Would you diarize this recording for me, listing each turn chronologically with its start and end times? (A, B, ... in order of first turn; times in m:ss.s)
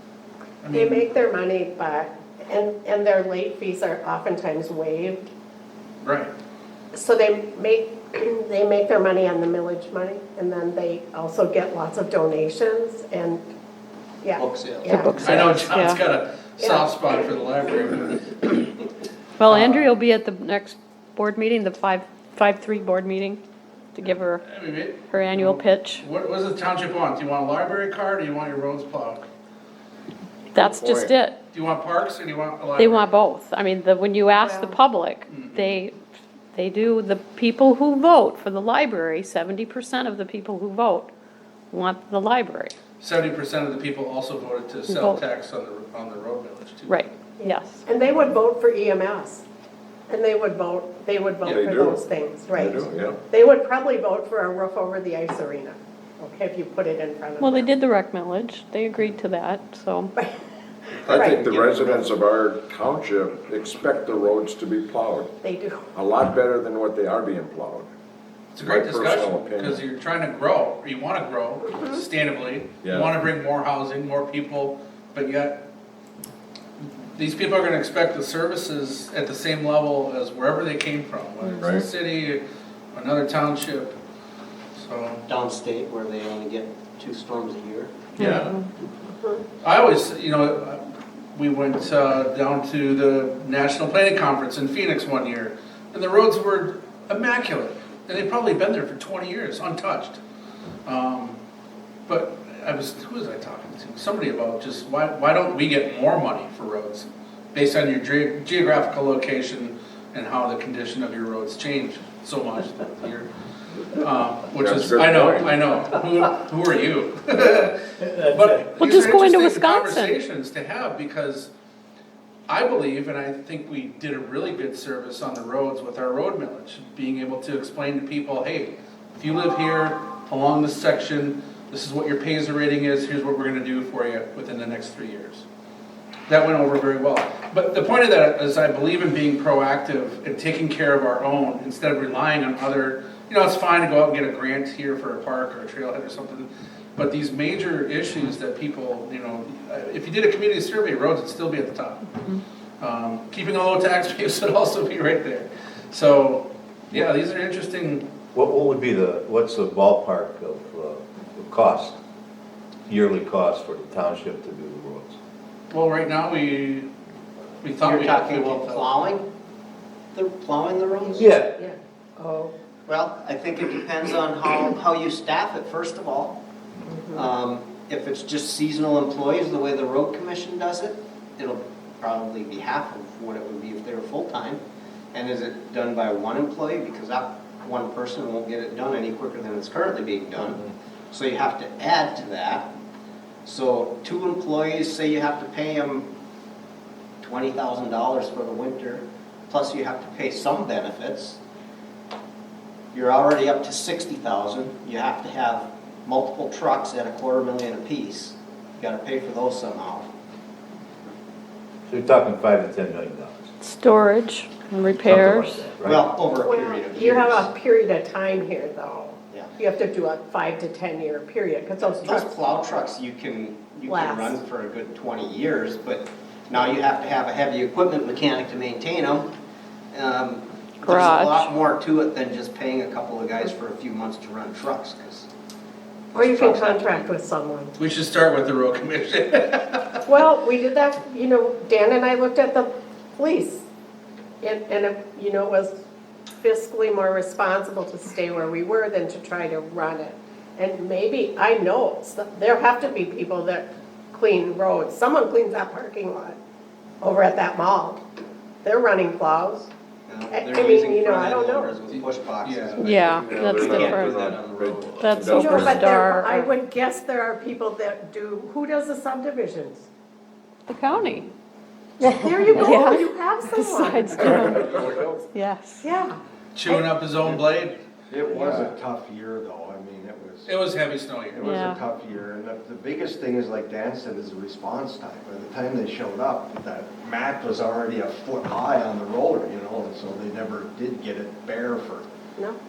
0:00.6-0:01.1 A
0:00.7-0:05.2 B
0:06.0-0:06.3 A
0:06.9-0:13.4 B
0:14.2-0:15.5 B
0:14.4-0:15.6 C
0:14.8-0:16.0 D
0:15.2-0:18.7 A
0:16.6-0:16.8 B
0:19.4-0:23.4 D
0:19.5-0:19.9 A
0:23.9-0:24.4 D
0:24.4-0:29.3 A
0:25.0-0:26.0 D
0:30.5-0:31.4 D
0:30.8-0:31.1 E
0:31.0-0:33.1 A
0:32.8-0:36.0 D
0:34.3-0:34.8 B
0:35.3-0:35.8 A
0:36.5-0:41.1 D
0:41.7-0:42.7 D
0:43.0-0:47.0 A
0:44.9-0:45.2 D
0:46.9-0:47.9 D
0:47.4-0:49.4 B
0:50.1-0:57.7 B
0:51.5-0:52.0 F
0:52.6-0:53.2 F
0:57.4-1:00.1 D
1:01.0-1:01.4 B
1:01.1-1:02.1 C
1:01.2-1:05.3 F
1:01.8-1:02.1 E
1:05.4-1:05.8 B
1:06.0-1:07.9 F
1:08.5-1:15.6 A
1:08.6-1:09.7 F
1:17.2-1:22.4 A
1:22.9-1:24.0 A
1:24.8-1:25.2 A
1:25.3-1:28.2 C
1:28.2-1:28.6 D
1:29.1-1:29.4 B
1:29.6-1:30.8 A
1:31.3-1:40.2 A
1:40.8-1:41.4 A
1:42.1-1:53.3 A
1:53.9-2:01.5 A
1:54.6-1:55.4 F
1:58.0-1:58.7 G
1:58.8-2:00.2 D
2:02.5-2:15.4 A
2:16.3-2:32.1 A
2:32.8-2:38.0 A
2:38.3-2:42.0 G
2:42.9-2:45.2 G
2:45.7-2:46.9 A
2:47.6-2:48.9 A
2:47.8-2:49.2 C
2:50.1-2:51.3 C
2:51.0-2:52.5 B
2:51.1-2:51.5 G
2:52.9-2:56.4 C
2:56.8-2:57.2 B
2:57.1-3:04.6 C
3:05.1-3:12.7 C
3:13.4-3:16.1 C
3:17.2-3:21.4 C
3:22.9-3:30.1 C
3:31.9-3:33.5 G
3:33.6-3:35.6 D
3:34.9-3:36.0 G
3:35.8-3:37.5 C
3:36.4-3:42.3 B
3:41.8-3:49.3 C
3:43.9-3:44.4 B
3:49.9-3:55.3 C
3:50.8-3:51.5 D
3:56.1-3:57.1 C
3:56.1-3:57.7 B
3:57.8-4:00.0 A
4:00.0-4:03.6 B
4:04.4-4:05.8 B
4:06.4-4:16.4 B
4:17.0-4:18.0 B
4:18.6-4:19.7 B
4:20.1-4:25.0 C
4:20.3-4:21.7 B
4:21.9-4:23.0 A
4:22.8-4:24.3 D
4:23.2-4:25.7 F
4:23.7-4:24.5 E
4:25.0-4:26.5 D
4:25.1-4:25.6 E
4:25.3-4:29.9 B
4:30.7-4:31.3 D
4:32.0-4:34.7 B
4:32.5-4:35.9 D
4:34.3-4:35.2 E
4:35.8-4:36.9 B
4:36.5-4:37.8 A
4:38.1-4:40.6 E
4:38.3-4:38.7 B
4:40.4-4:41.4 A
4:41.3-4:52.0 E
4:41.4-4:41.8 D